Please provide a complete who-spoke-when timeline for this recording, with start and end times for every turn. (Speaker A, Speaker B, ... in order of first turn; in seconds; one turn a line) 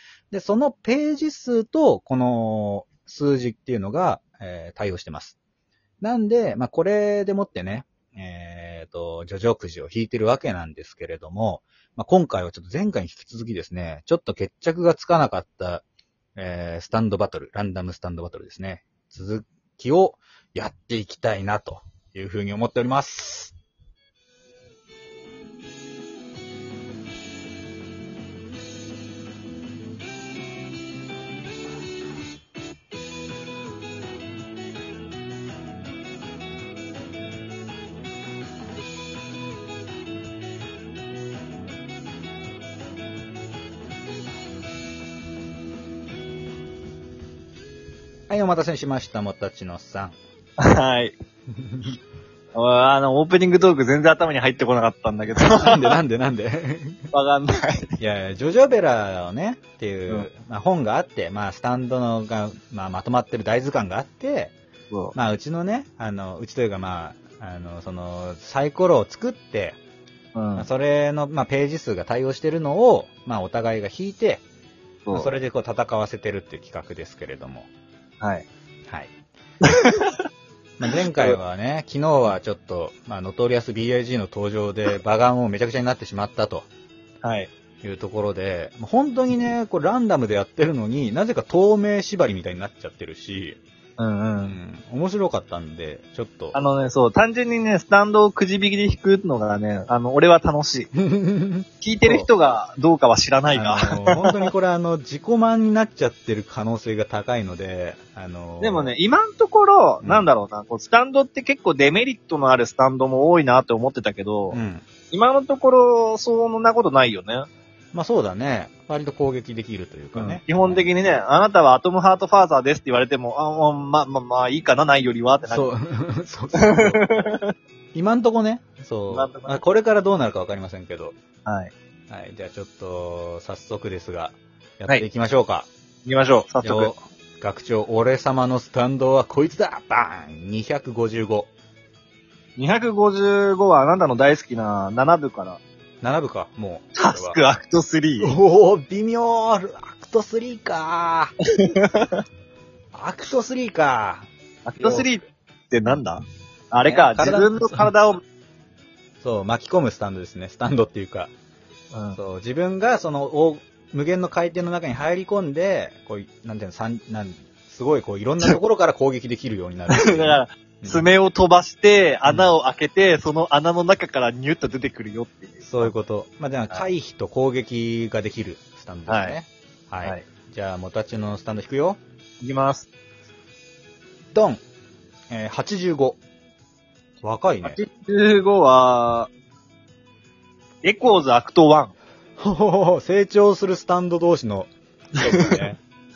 Speaker A: 0.3-5.4
Speaker A: 6.0-15.8
Speaker A: 16.4-23.5
Speaker A: 48.3-50.2
Speaker B: 50.6-51.2
Speaker A: 51.6-51.9
Speaker B: 52.5-56.0
Speaker A: 55.6-57.0
Speaker B: 57.1-57.9
Speaker A: 58.0-64.5
Speaker A: 65.1-69.8
Speaker B: 70.3-70.7
Speaker A: 70.5-74.4
Speaker B: 75.0-75.4
Speaker A: 75.1-77.7
Speaker B: 78.2-78.5
Speaker B: 79.6-80.1
Speaker A: 80.8-86.7
Speaker B: 87.2-87.5
Speaker A: 87.8-93.6
Speaker B: 94.0-94.6
Speaker A: 94.4-96.5
Speaker B: 96.5-100.9
Speaker A: 101.0-102.3
Speaker B: 101.8-104.5
Speaker A: 103.5-108.9
Speaker B: 108.6-114.6
Speaker A: 114.5-114.8
Speaker B: 115.1-117.5
Speaker A: 117.9-120.8
Speaker B: 120.1-125.7
Speaker A: 125.5-127.0
Speaker B: 126.5-127.5
Speaker A: 127.9-131.2
Speaker B: 129.1-129.6
Speaker B: 131.4-131.7
Speaker A: 132.1-135.7
Speaker B: 136.0-136.9
Speaker A: 136.6-141.5
Speaker B: 142.6-145.6
Speaker A: 146.0-147.4
Speaker B: 146.9-148.4
Speaker A: 148.2-151.3
Speaker B: 151.6-152.2
Speaker A: 152.9-155.1
Speaker B: 154.6-158.2
Speaker A: 156.8-157.9
Speaker A: 159.2-161.3
Speaker B: 161.9-162.2
Speaker A: 162.1-171.1
Speaker B: 169.9-175.9
Speaker A: 175.6-182.0
Speaker B: 179.1-179.3
Speaker B: 182.4-182.9
Speaker A: 184.3-184.6
Speaker A: 185.3-186.2
Speaker A: 187.2-187.8
Speaker B: 187.6-189.3
Speaker B: 190.8-191.9
Speaker A: 192.4-195.8
Speaker B: 195.2-195.6